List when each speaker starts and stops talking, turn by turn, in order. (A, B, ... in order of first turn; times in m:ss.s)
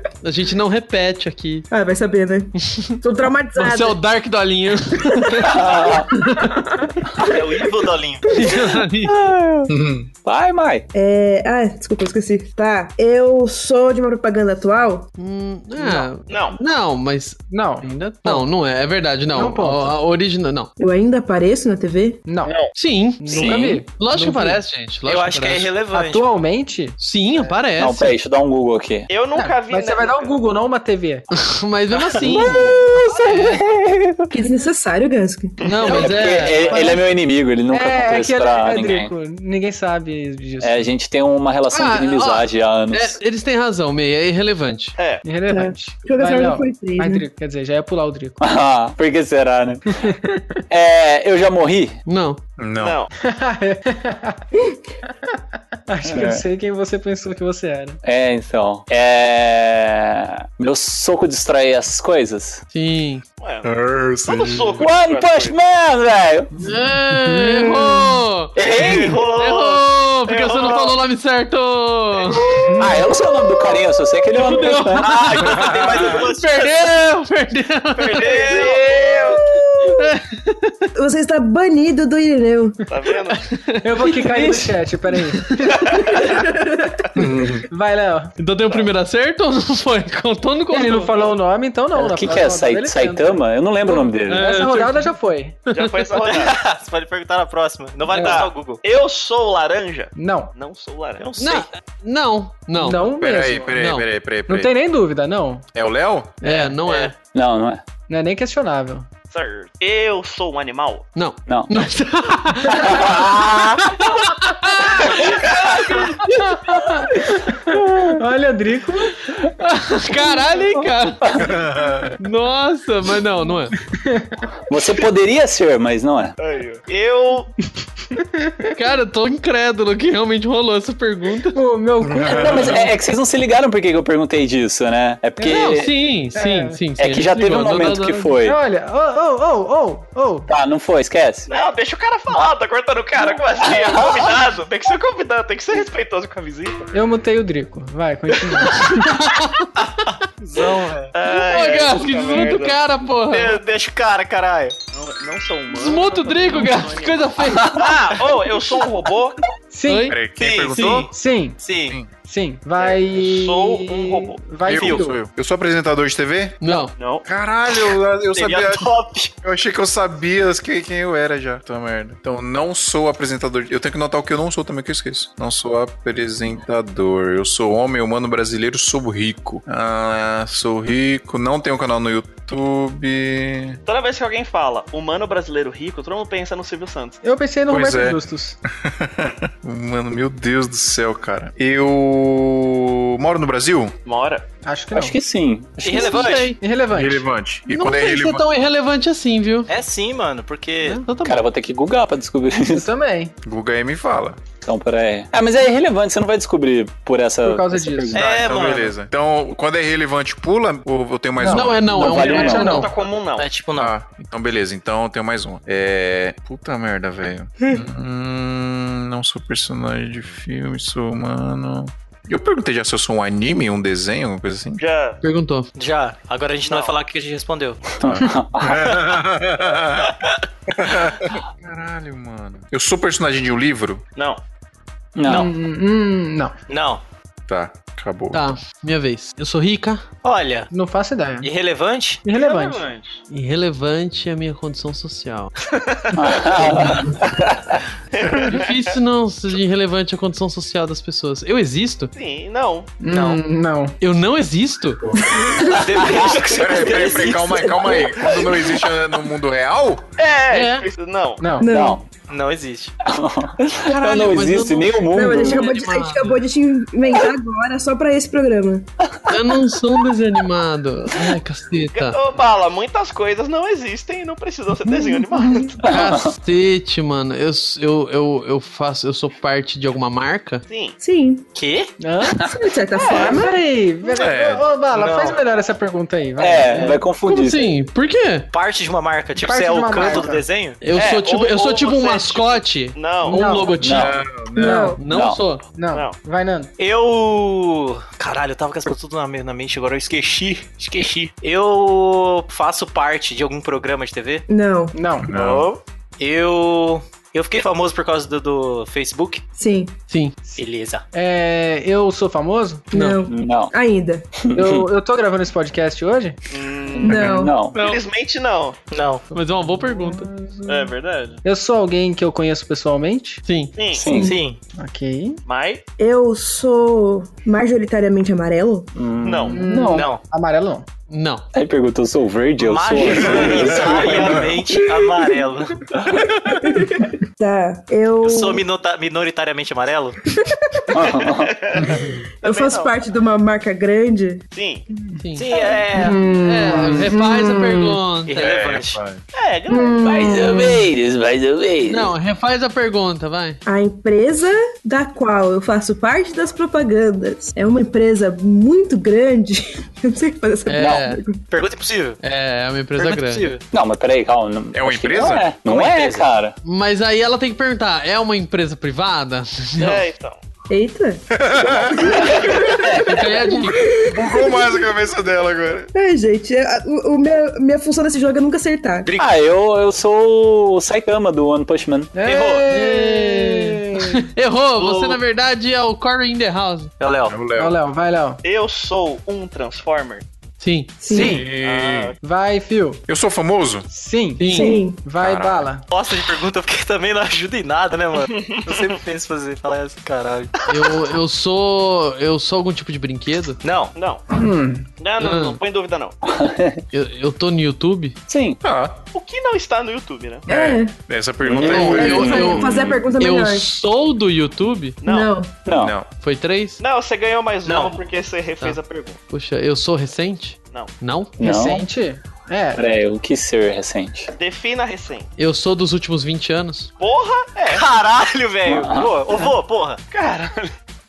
0:00.2-0:01.7 A
0:01.7-0:04.0 B
0:03.6-0:05.8 A
0:05.5-0:06.1 C
0:06.3-0:07.2 B
0:07.2-0:08.3 D
0:08.3-0:09.2 A
0:09.0-0:09.7 C
0:09.7-0:10.1 E
0:10.2-0:10.9 C
0:10.9-0:15.1 B
0:15.2-0:20.7 A
0:15.8-0:16.1 F
0:16.3-0:16.6 G
0:17.5-0:18.5 F
0:19.3-0:20.0 F
0:20.8-0:22.2 B
0:22.3-0:22.5 F
0:22.4-0:22.7 G
0:22.7-0:25.7 A
0:23.2-0:24.6 F
0:23.4-0:23.8 C
0:25.0-0:26.2 D
0:25.9-0:27.0 F
0:27.0-0:28.1 A
0:27.8-0:29.1 C
0:29.1-0:30.4 G
0:29.3-0:31.3 F
0:31.3-0:33.6 A
0:32.2-0:34.3 C
0:34.3-0:36.0 B
0:35.6-0:36.0 G
0:35.6-0:37.0 A
0:35.9-0:39.1 C
0:36.7-0:37.0 F
0:37.7-0:40.9 F
0:40.6-0:43.2 C
0:41.7-0:44.9 A
0:45.0-0:45.2 G
0:45.2-0:48.4 F
0:45.5-0:47.2 B
0:48.4-0:49.8 C
0:50.0-0:50.6 F
0:50.7-0:52.0 C
0:52.0-0:52.4 A
0:52.6-0:53.0 E
0:52.8-0:53.1 G
0:53.2-0:54.4 F
0:55.1-0:58.0 F
0:56.0-0:56.4 C
0:58.0-1:02.6 C
1:02.7-1:03.2 A
1:03.4-1:03.7 G
1:03.6-1:04.8 E
1:04.2-1:05.6 G
1:04.8-1:06.5 C
1:06.6-1:12.4 A
1:07.1-1:07.9 F
1:08.6-1:09.2 C
1:08.6-1:11.0 G
1:12.8-1:15.1 C
1:14.3-1:18.5 A
1:15.0-1:16.9 D
1:15.6-1:16.2 E
1:18.0-1:19.4 G
1:18.1-1:18.8 D
1:19.5-1:20.1 B
1:19.8-1:20.8 A
1:20.9-1:22.8 B
1:22.9-1:23.5 G
1:23.5-1:24.8 A
1:23.8-1:26.1 F
1:25.7-1:26.2 G
1:26.2-1:27.1 B
1:27.2-1:27.7 E
1:27.2-1:28.3 F
1:28.4-1:31.3 A
1:30.7-1:35.6 F
1:31.9-1:34.5 C
1:34.3-1:35.2 A
1:35.7-1:36.6 G
1:36.2-1:38.8 D
1:38.1-1:41.3 G
1:38.1-1:38.4 F
1:40.1-1:40.5 F
1:41.2-1:41.7 D
1:41.4-1:43.0 A
1:42.8-1:43.7 F
1:43.2-1:44.7 E
1:43.7-1:44.1 A
1:44.5-1:45.6 F
1:45.7-1:46.4 E
1:46.4-1:47.1 A
1:46.4-1:47.2 D
1:47.2-1:47.8 C
1:48.1-1:49.1 F
1:49.3-1:51.1 G
1:51.1-1:53.2 A
1:51.5-1:51.9 C
1:52.7-1:53.9 C
1:54.0-1:56.6 A
1:56.4-1:59.2 F
1:59.6-2:01.2 A
2:01.2-2:01.5 C
2:01.5-2:02.1 E
2:02.2-2:03.7 A
2:03.9-2:04.4 F
2:04.7-2:06.4 C
2:06.4-2:07.5 G
2:08.1-2:08.7 F
2:08.8-2:11.6 A
2:11.5-2:12.9 F
2:12.0-2:12.9 E
2:12.2-2:16.0 C
2:15.4-2:15.8 F
2:15.5-2:18.3 A
2:16.3-2:16.8 F
2:17.0-2:18.6 C
2:18.4-2:20.5 F
2:20.5-2:21.5 C
2:21.5-2:26.9 G
2:23.7-2:24.2 C
2:26.9-2:29.2 F
2:28.8-2:29.7 A
2:29.8-2:31.1 D
2:31.1-2:32.8 G
2:31.2-2:33.6 A
2:33.3-2:34.8 D
2:34.9-2:39.4 G
2:35.7-2:37.8 A
2:37.8-2:38.2 D
2:39.7-2:40.2 F
2:39.8-2:40.2 A
2:40.1-2:41.0 E
2:40.3-2:42.0 D
2:40.7-2:41.0 A
2:41.1-2:41.6 F
2:42.2-2:45.2 F
2:42.8-2:44.4 G
2:44.6-2:46.6 E
2:44.7-2:45.1 D
2:46.6-2:46.9 A
2:47.0-2:47.2 G
2:47.2-3:03.8 E
2:48.3-2:49.3 D
3:03.8-3:07.2 G
3:07.2-3:08.6 F
3:07.7-3:13.9 E
3:14.0-3:14.4 G
3:14.6-3:15.2 F
3:14.9-3:16.2 C
3:15.8-3:16.6 D
3:15.8-3:16.6 A
3:16.6-3:17.2 F
3:16.9-3:18.4 E
3:17.7-3:19.7 A
3:19.7-3:21.0 D
3:20.9-3:21.4 A
3:21.2-3:22.9 C
3:22.7-3:23.3 F
3:23.4-3:24.4 E
3:24.6-3:28.4 C
3:27.4-3:28.2 F
3:28.1-3:28.9 D
3:28.2-3:32.0 E
3:31.4-3:32.9 F
3:31.5-3:32.9 A
3:31.9-3:32.8 C
3:32.1-3:33.5 G
3:33.4-3:33.9 D
3:33.8-3:44.8 E
3:44.8-3:45.2 G
3:45.2-3:45.7 A
3:45.7-3:47.8 D
3:46.6-3:47.0 G
3:48.0-3:48.8 C
3:48.0-3:50.1 E
3:50.7-3:54.0 E
3:55.2-3:55.5 C
3:55.2-3:56.5 F
3:56.7-3:57.0 D
3:57.5-3:58.5 E
3:58.3-4:00.0 A
4:00.2-4:00.7 D
4:00.7-4:01.5 F
4:01.4-4:02.2 D
4:02.2-4:02.8 F
4:02.3-4:03.2 G
4:03.3-4:05.5 A
4:05.7-4:06.2 G
4:06.1-4:07.6 C
4:08.1-4:08.9 G
4:08.5-4:12.1 A
4:12.1-4:12.9 G
4:13.0-4:13.9 F
4:13.1-4:13.4 D
4:14.0-4:15.0 A
4:15.2-4:16.2 B
4:15.6-4:17.9 D
4:16.0-4:16.4 C
4:16.4-4:20.0 E
4:16.8-4:18.3 B
4:20.2-4:21.4 G
4:20.5-4:20.9 A
4:21.4-4:21.7 F
4:21.6-4:22.0 B
4:21.6-4:22.0 C
4:22.3-4:22.9 D
4:23.0-4:25.7 C
4:23.8-4:26.4 A
4:25.1-4:28.9 B
4:29.3-4:32.2 A
4:31.9-4:35.8 G
4:35.4-4:35.8 B
4:35.8-4:36.3 C
4:35.8-4:40.6 A
4:40.7-4:41.0 G
4:41.0-4:41.4 B
4:41.5-4:41.9 D
4:42.0-4:42.4 F
4:42.4-4:43.6 B
4:43.0-4:43.3 C
4:43.1-4:47.0 F
4:44.1-4:44.6 E
4:44.9-4:45.4 D
4:46.4-4:47.7 C
4:46.8-4:48.5 A
4:48.5-4:50.8 D
4:49.4-4:50.4 F
4:50.8-4:55.6 A
4:50.9-4:53.6 G
4:53.3-4:53.8 F
4:53.8-4:54.2 C
4:53.9-4:54.9 E
4:54.6-4:55.0 B
4:54.6-4:54.9 F
4:55.1-4:55.4 C
4:55.7-4:56.7 F
4:56.8-5:04.4 D
5:04.5-5:04.9 B
5:04.9-5:05.3 F
5:05.2-5:05.7 E
5:05.3-5:05.8 G
5:06.2-5:09.4 D
5:09.6-5:09.9 B
5:10.1-5:10.4 A
5:10.6-5:11.0 D
5:11.1-5:12.9 F
5:12.9-5:14.3 B
5:12.9-5:13.2 A
5:13.3-5:13.7 C
5:14.4-5:14.8 C
5:14.5-5:16.4 F
5:16.5-5:18.8 G
5:16.9-5:17.8 C
5:17.0-5:17.5 B
5:17.7-5:18.0 A
5:18.9-5:19.2 D
5:19.3-5:23.4 F
5:19.3-5:20.3 A
5:20.7-5:21.4 G
5:23.4-5:23.7 A
5:23.8-5:24.1 G
5:23.9-5:24.4 C
5:24.1-5:24.4 B
5:24.1-5:24.6 D
5:24.8-5:25.4 F
5:25.4-5:25.8 G
5:26.0-5:28.9 B
5:28.9-5:30.0 C
5:29.2-5:29.6 G
5:29.5-5:30.9 F
5:29.6-5:30.0 B
5:29.9-5:30.2 D
5:31.1-5:31.4 A
5:31.5-5:34.2 C
5:32.6-5:35.8 D
5:33.2-5:34.5 E
5:34.9-5:35.4 B
5:36.1-5:38.6 B
5:36.2-5:36.5 E
5:38.2-5:40.2 D
5:40.3-5:41.1 B
5:40.9-5:41.6 C
5:41.4-5:43.0 G
5:42.4-5:44.4 B
5:44.5-5:44.8 G
5:45.2-5:45.5 A
5:45.4-5:46.2 D
5:45.4-5:46.2 G
5:45.9-5:47.7 F
5:46.4-5:48.6 A
5:47.1-5:47.8 B
5:48.2-5:49.0 D
5:48.4-5:49.2 E
5:49.3-5:50.4 G
5:49.7-5:50.9 B
5:50.0-5:52.1 C
5:51.8-5:53.6 A
5:53.6-6:01.4 B
6:00.7-6:01.2 A
6:01.5-6:02.2 D
6:02.2-6:03.5 A
6:03.0-6:03.6 D
6:03.7-6:06.5 C
6:04.7-6:05.6 E
6:05.6-6:06.3 D
6:06.6-6:10.0 A
6:09.8-6:10.4 G
6:10.7-6:11.2 B
6:11.3-6:12.9 E
6:11.9-6:12.5 G
6:12.0-6:14.6 B
6:13.0-6:13.9 A
6:14.0-6:15.9 E
6:15.9-6:19.1 B
6:19.0-6:19.3 D
6:19.2-6:22.1 C
6:22.1-6:24.2 F
6:22.2-6:22.7 D
6:22.7-6:26.9 A
6:24.8-6:25.2 D
6:27.0-6:27.4 D
6:27.3-6:27.8 E
6:27.6-6:28.4 F
6:28.4-6:30.2 G
6:30.6-6:31.0 A
6:31.0-6:31.4 B
6:31.1-6:31.4 F
6:31.1-6:32.1 E
6:31.6-6:32.2 G
6:32.2-6:33.0 F
6:33.1-6:33.9 E
6:33.9-6:35.8 F
6:34.4-6:34.8 A
6:34.5-6:35.0 B
6:35.2-6:35.7 E
6:35.9-6:40.5 D
6:38.3-6:38.9 G
6:40.7-6:43.6 A
6:43.6-6:43.9 D
6:44.0-6:44.2 G
6:44.3-6:44.9 F
6:45.0-6:46.2 G
6:45.2-6:45.6 A
6:46.2-6:46.8 C
6:46.9-6:48.2 A
6:48.3-6:48.6 C
6:48.6-6:49.0 E
6:49.1-6:50.4 G
6:50.5-6:50.9 B
6:50.5-6:52.5 E
6:51.4-6:53.0 C
6:51.6-6:55.0 A
6:51.7-6:53.7 B
6:55.0-6:55.3 G
6:55.0-6:55.6 B
6:55.6-6:55.9 C
6:55.7-6:56.1 E
6:56.2-6:56.8 A
6:56.8-6:59.2 G
6:57.6-6:58.0 D
6:59.3-7:01.4 A
7:01.4-7:01.8 C
7:01.4-7:02.8 F
7:02.7-7:04.3 C
7:04.4-7:05.3 G
7:05.4-7:06.9 A
7:07.0-7:07.8 G
7:07.7-7:10.0 D
7:08.7-7:09.1 C
7:10.1-7:10.7 G